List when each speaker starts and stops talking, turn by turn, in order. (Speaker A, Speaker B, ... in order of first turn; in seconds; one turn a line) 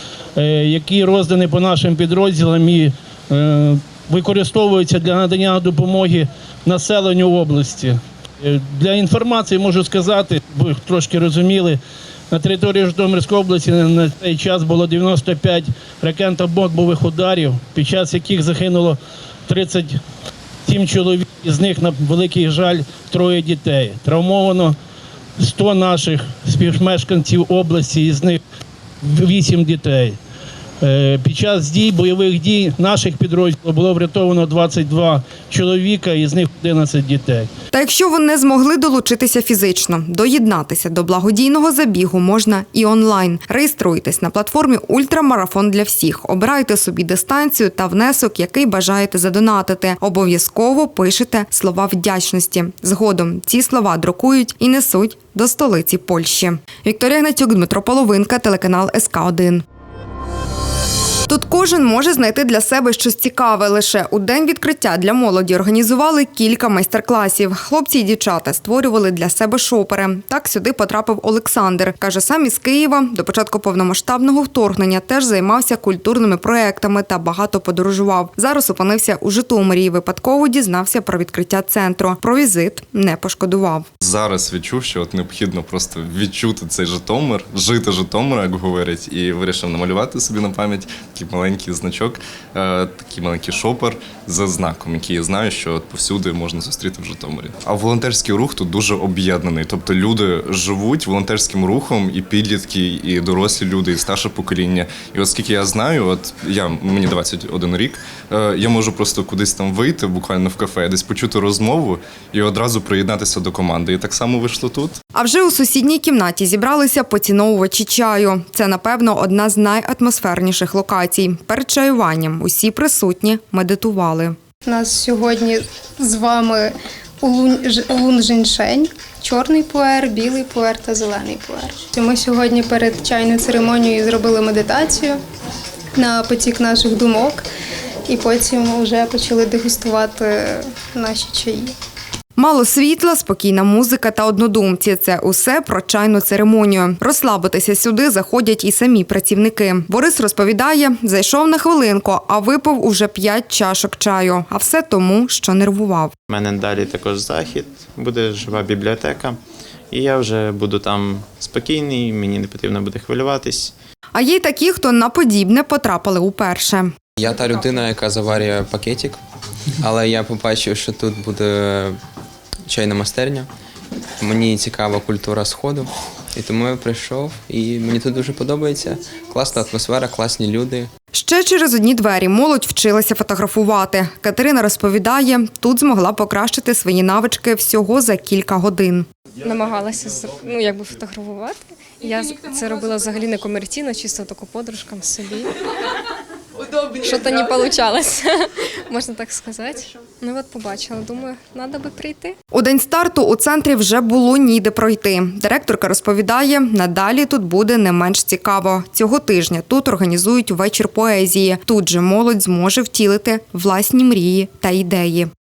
Speaker A: 0.4-8.0
Speaker A: 8.5-11.8
Speaker A: 12.3-19.9
Speaker A: 20.7-24.8
Speaker A: 25.4-28.4
Speaker A: 29.2-30.2
Speaker A: 30.9-37.5
Speaker B: 37.7-59.6
Speaker B: 61.3-83.9
Speaker C: 84.0-115.0
Speaker B: 115.1-124.4
Speaker D: 124.7-126.6
Speaker D: 127.2-135.2
Speaker D: 136.0-137.4
Speaker D: 138.1-140.4
Speaker D: 141.0-141.7
Speaker B: 142.4-156.1
Speaker E: 156.3-159.3
Speaker E: 159.9-163.6
Speaker B: 164.1-166.9
Speaker F: 167.2-169.2
Speaker F: 169.8-171.9
Speaker F: 172.7-173.4
Speaker F: 174.2-175.8
Speaker F: 176.4-180.9
Speaker B: 181.1-189.1
Speaker G: 189.4-195.5
Speaker G: 197.0-198.2
Speaker G: 198.9-202.3
Speaker B: 202.5-215.3